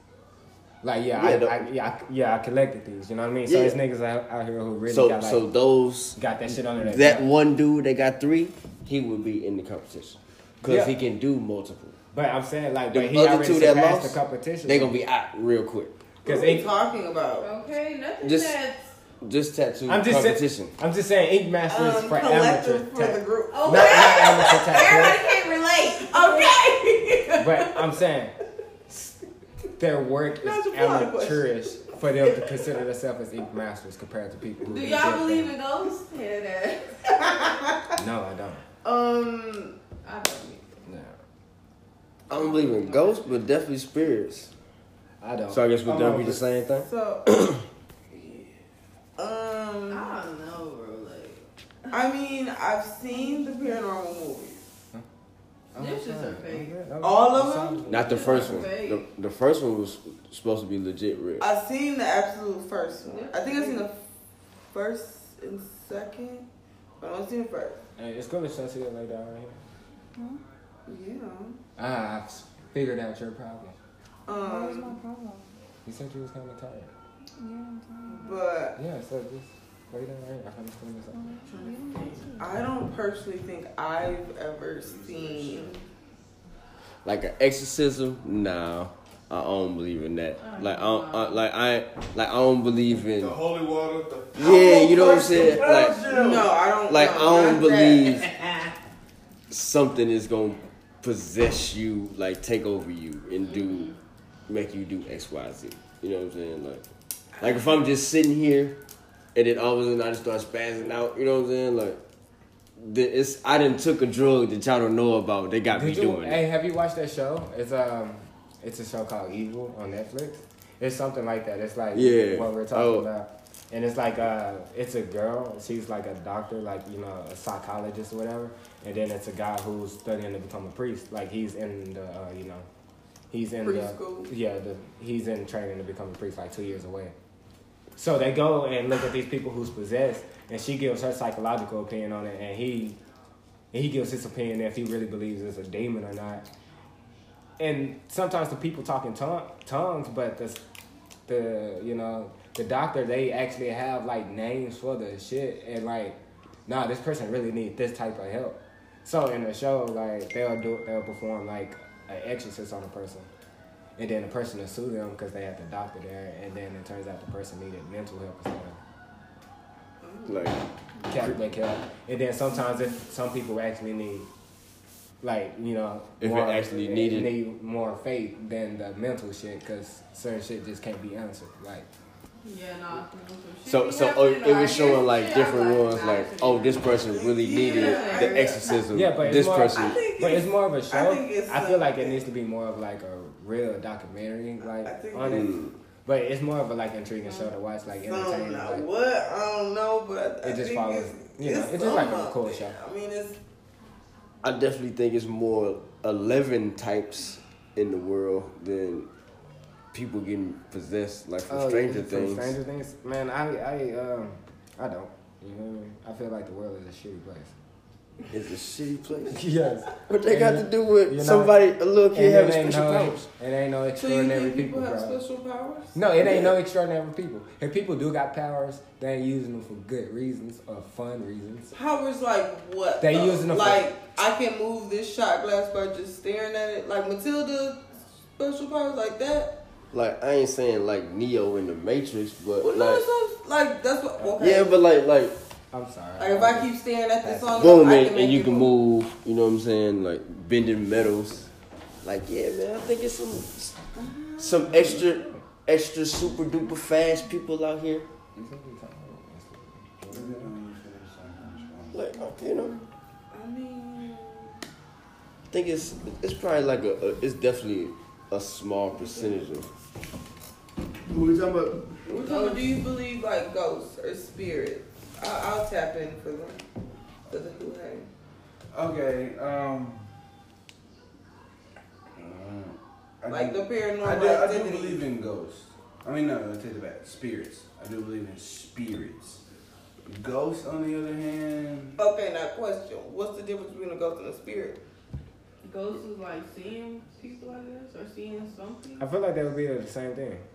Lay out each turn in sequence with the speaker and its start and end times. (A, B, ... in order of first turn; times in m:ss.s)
0:00.8-0:05.4 A
0:01.2-0:01.7 B
0:03.5-0:03.8 B
0:04.9-0:12.0 B
0:06.2-0:07.3 A
0:10.6-0:11.0 A
0:12.1-0:15.0 A
0:12.9-0:16.0 B
0:16.2-0:17.5 C
0:16.2-0:16.7 A
0:17.4-0:19.0 D
0:18.2-0:18.6 B
0:19.2-0:20.7 B
0:19.9-0:25.2 A
0:21.7-0:27.8 C
0:23.5-0:26.6 D
0:27.4-0:28.4 A
0:28.9-0:29.2 A
0:29.8-0:35.5 A
0:30.4-0:32.5 C
0:34.6-0:37.3 D
0:37.1-0:37.9 C
0:38.0-0:38.6 A
0:38.8-0:39.8 C
0:40.0-0:40.6 D
0:40.9-0:41.1 A
0:42.3-0:44.5 B
0:42.3-0:43.3 D
0:45.2-0:46.4 A
0:45.5-0:47.6 B
0:46.8-0:47.3 C
0:48.1-0:48.5 C
0:49.2-0:50.1 C
0:49.9-0:52.0 D
0:51.9-0:54.6 C
0:53.1-0:53.8 D
0:55.7-0:56.8 D
0:55.7-0:58.7 A
0:57.0-0:57.9 C
0:57.9-1:01.5 B
0:58.0-0:59.1 D
1:01.4-1:04.0 C
1:02.9-1:03.9 D
1:04.7-1:06.5 C
1:07.0-1:07.8 C
1:08.0-1:09.6 A
1:10.9-1:11.6 C
1:11.8-1:13.8 A
1:14.3-1:15.0 C
1:14.4-1:15.5 E
1:15.8-1:17.0 A
1:17.4-1:18.4 E
1:18.1-1:18.8 C
1:18.8-1:21.3 A
1:21.1-1:22.6 E
1:21.5-1:22.3 D
1:22.4-1:25.7 C
1:24.8-1:25.8 F
1:27.0-1:33.4 B
1:30.4-1:31.4 D
1:33.1-1:36.6 F
1:34.4-1:36.0 B
1:36.1-1:38.2 C
1:36.9-1:38.3 B
1:38.3-1:38.7 F
1:39.5-1:43.9 B
1:43.4-1:44.0 D
1:44.5-1:46.9 B
1:47.4-1:48.8 B
1:49.4-1:52.0 B
1:52.8-1:56.4 B
1:55.7-2:12.7 A
2:01.9-2:03.1 B
2:13.3-2:17.2 A
2:13.6-2:14.3 C
2:18.0-2:23.0 A
2:23.7-2:26.5 A
2:27.6-2:30.6 A
2:31.3-2:43.3 A
2:44.0-2:48.8 A
2:50.0-2:50.5 C
2:50.3-2:51.4 B
2:51.1-2:54.3 A
2:55.2-3:01.9 A
2:56.2-2:57.4 B
3:02.4-3:08.8 D
3:03.7-3:10.0 B
3:07.0-3:08.7 C
3:08.9-3:15.5 A
3:09.7-3:12.2 C
3:14.6-3:15.6 C
3:15.3-3:15.8 B
3:16.0-3:18.9 A
3:18.0-3:23.4 C
3:20.4-3:22.8 A
3:24.4-3:29.1 B
3:29.9-3:32.6 B
3:31.5-3:37.5 A
3:38.3-3:39.4 B
3:39.3-3:41.6 A
3:40.0-3:43.3 B
3:42.1-3:45.2 A
3:44.0-3:46.0 C
3:46.0-3:51.7 A
3:46.2-3:46.5 B
3:51.7-3:59.5 C
3:53.0-3:53.9 A
3:59.9-4:03.0 B
4:02.6-4:04.8 C
4:04.4-4:05.4 B
4:05.7-4:07.8 A
4:06.2-4:08.8 C
4:07.6-4:11.5 B
4:12.0-4:13.8 B
4:14.0-4:14.9 C
4:14.4-4:18.1 B
4:14.8-4:15.4 A
4:18.4-4:20.5 A
4:20.1-4:22.1 F
4:21.9-4:22.8 B
4:23.3-4:24.6 C
4:25.5-4:29.7 B
4:31.1-4:31.9 F
4:32.1-4:36.6 C
4:32.1-4:32.8 D
4:37.3-4:38.1 C
4:38.7-4:40.1 F
4:42.2-4:49.4 F
4:43.3-4:45.0 C
4:50.1-4:52.0 F
4:52.0-4:54.8 C
4:55.6-4:59.0 D
4:59.0-5:00.5 A